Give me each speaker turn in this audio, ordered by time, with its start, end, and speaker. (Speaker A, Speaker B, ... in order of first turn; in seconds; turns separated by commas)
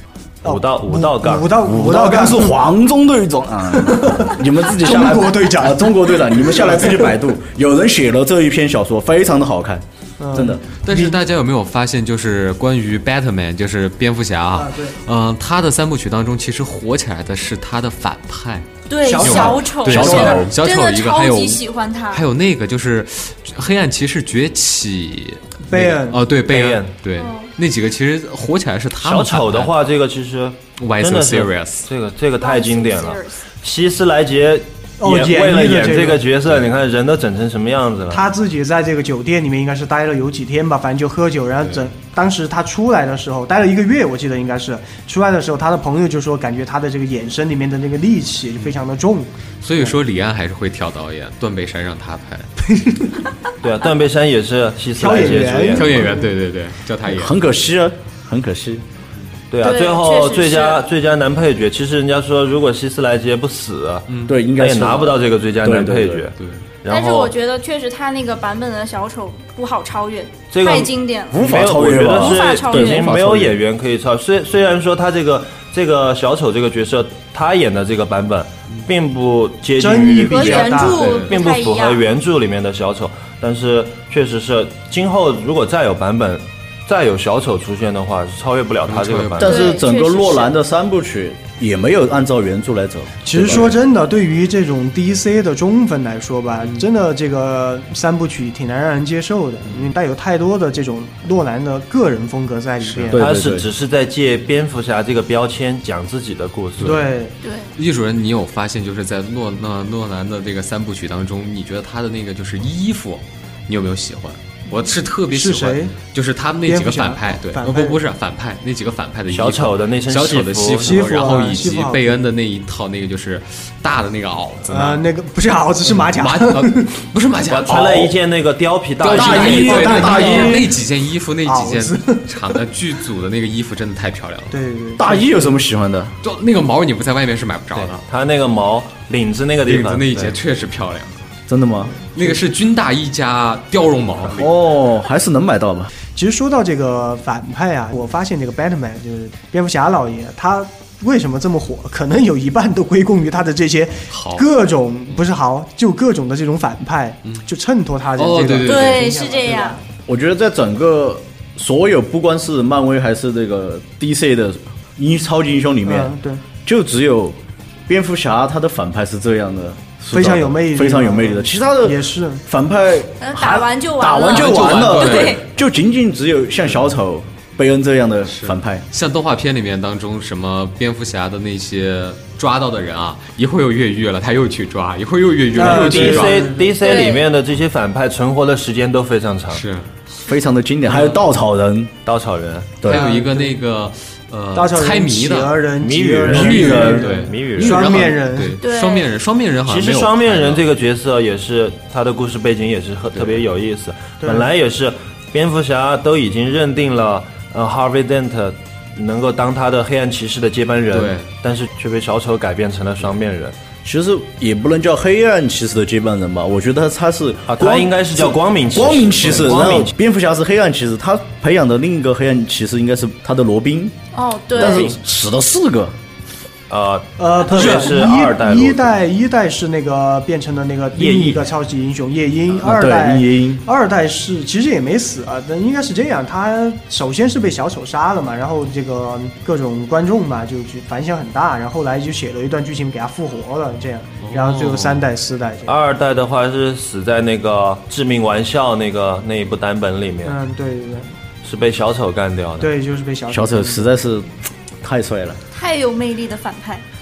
Speaker A: 0.4-1.6, Speaker B: 0.4-2.6, Speaker C: 1.6-10.6, Speaker B: 3.8-7.1, Speaker B: 10.2-11.2, Speaker D: 10.7-18.7, Speaker B: 14.5-15.0, Speaker E: 18.9-22.2, Speaker B: 19.0-20.4, Speaker D: 19.2-29.7, Speaker C: 19.3-20.5, Speaker B: 25.7-26.2, Speaker A: 26.4-26.9, Speaker E: 27.1-27.5, Speaker A: 29.0-38.2, Speaker D: 30.8-31.9, Speaker E: 32.4-33.4, Speaker B: 35.0-36.2, Speaker B: 38.1-50.0, Speaker D: 41.6-41.9, Speaker D: 49.6-52.5, Speaker B: 52.7-53.1, Speaker A: 53.6-56.1, Speaker B: 55.0-56.3, Speaker D: 55.7-57.4, Speaker C: 57.1-58.8, Speaker A: 59.5-67.3, Speaker E: 59.6-60.8, Speaker D: 64.1-64.3, Speaker C: 64.3-66.2, Speaker E: 66.9-73.1, Speaker A: 70.5-89.6, Speaker C: 71.3-73.5, Speaker B: 79.8-81.0, Speaker E: 80.2-82.0, Speaker D: 80.8-81.3, Speaker D: 88.9-89.5, Speaker C: 89.4-93.7, Speaker E: 89.4-90.5, Speaker B: 93.2-103.3, Speaker D: 93.4-93.7, Speaker D: 96.6-96.8, Speaker D: 99.7-99.9, Speaker D: 102.8-103.1, Speaker C: 103.1-103.7, Speaker A: 103.1-107.0, Speaker B: 106.8-107.4, Speaker E: 107.4-107.7, Speaker D: 107.8-125.0, Speaker B: 115.3-115.9, Speaker B: 116.7-118.0, Speaker A: 119.3-121.1, Speaker B: 120.8-122.2, Speaker B: 124.7-126.9, Speaker D: 125.9-128.1, Speaker A: 127.5-130.2, Speaker C: 127.7-128.1, Speaker D: 129.0-134.5, Speaker C: 129.1-130.7, Speaker B: 129.2-130.7, Speaker B: 131.4-132.2, Speaker B: 134.5-135.3, Speaker C: 135.0-136.1, Speaker D: 136.2-138.0, Speaker A: 137.7-140.4, Speaker D: 139.7-141.2, Speaker C: 141.5-141.9, Speaker D: 142.1-144.6, Speaker C: 144.3-145.9, Speaker B: 146.1-159.8, Speaker D: 154.1-154.5, Speaker D: 158.2-159.1, Speaker E: 158.6-159.8, Speaker C: 160.1-166.1, Speaker B: 165.8-166.4, Speaker C: 166.6-178.8, Speaker B: 170.1-172.4, Speaker E: 173.2-175.4, Speaker D: 174.3-175.4, Speaker D: 178.3-186.5, Speaker B: 185.5-186.7, Speaker A: 185.6-189.6, Speaker E: 186.8-187.3, Speaker D: 189.5-189.9, Speaker C: 190.2-191.9, Speaker D: 190.9-191.2, Speaker A: 192.0-192.8, Speaker D: 192.8-195.6, Speaker B: 192.9-193.5, Speaker B: 194.5-198.6, Speaker A: 195.8-198.1, Speaker D: 196.3-200.6, Speaker E: 198.6-199.1, Speaker A: 199.7-213.5, Speaker B: 204.2-204.5, Speaker D: 210.9-211.3, Speaker C: 213.8-223.9, Speaker A: 217.5-219.9, Speaker E: 224.1-224.9, Speaker C: 224.5-225.9, Speaker A: 226.7-228.9, Speaker B: 227.2-245.8, Speaker A: 230.9-231.5, Speaker C: 232.6-233.6, Speaker D: 244.2-245.0, Speaker A: 245.7-250.4, Speaker B: 250.2-251.1, Speaker A: 251.4-252.7, Speaker B: 252.6-253.9, Speaker C: 253.3-255.4, Speaker E: 255.5-256.8